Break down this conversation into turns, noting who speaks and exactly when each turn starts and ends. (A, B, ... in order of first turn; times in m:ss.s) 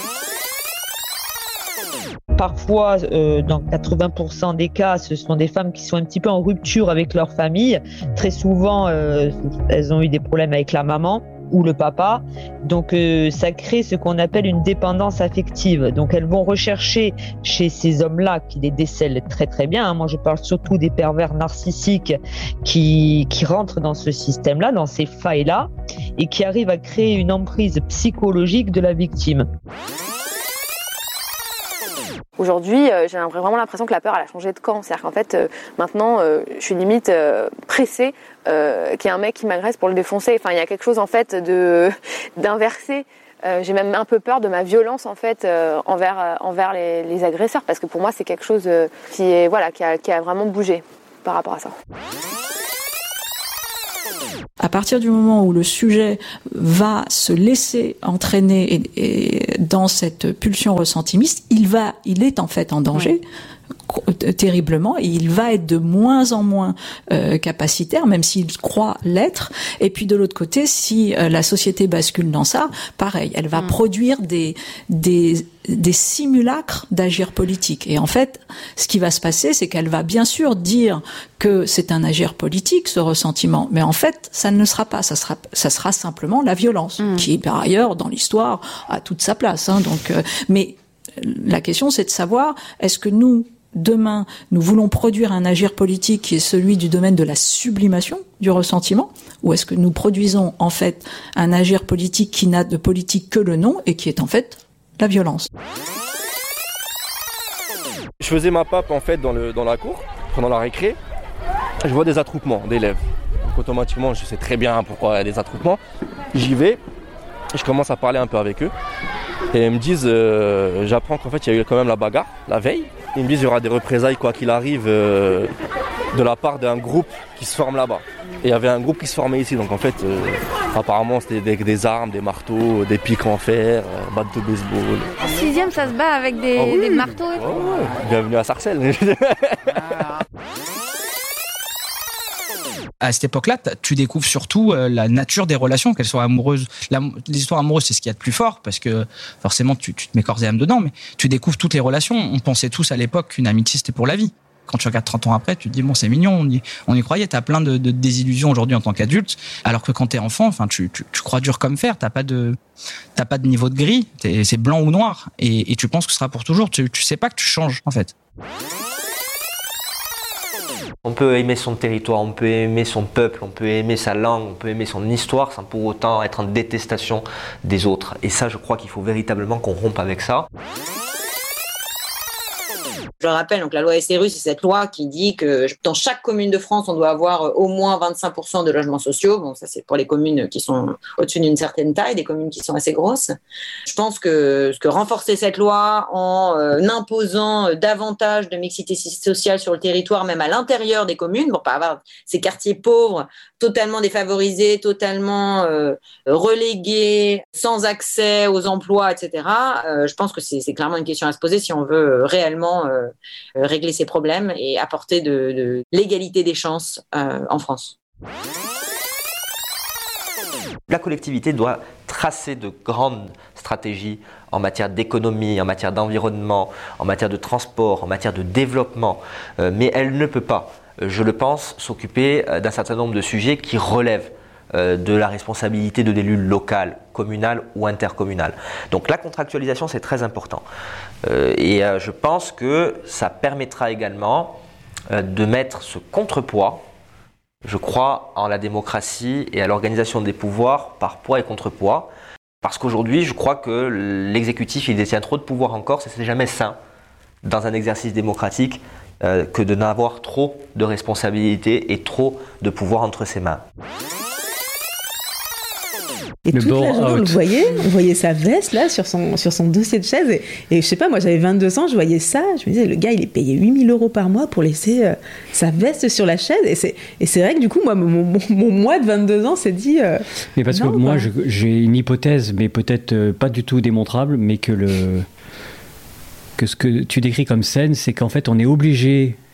0:02.4-0:29.5 A
0:32.4-0:51.7 B
0:54.6-1:03.2 C
1:03.9-1:45.4 C
1:48.2-1:51.0 D
1:51.8-1:55.8 D
1:56.3-1:56.8 D
1:57.5-1:58.7 D
1:59.5-2:05.5 D
2:06.1-2:15.1 D
2:15.2-2:17.2 E
2:16.5-2:19.7 D
2:23.0-2:42.6 F
2:43.2-2:48.1 F
2:51.0-3:00.5 G
3:03.2-3:13.2 H
3:13.9-3:32.9 H
3:33.7-3:37.8 H
3:40.9-4:00.6 G
4:01.2-4:04.6 G
4:05.1-4:06.8 G
4:07.6-4:12.1 G
4:12.6-4:16.8 G
4:17.4-4:23.6 G
4:26.4-4:41.3 I
4:26.5-4:27.3 J
4:40.6-4:45.2 J
4:46.6-4:49.4 J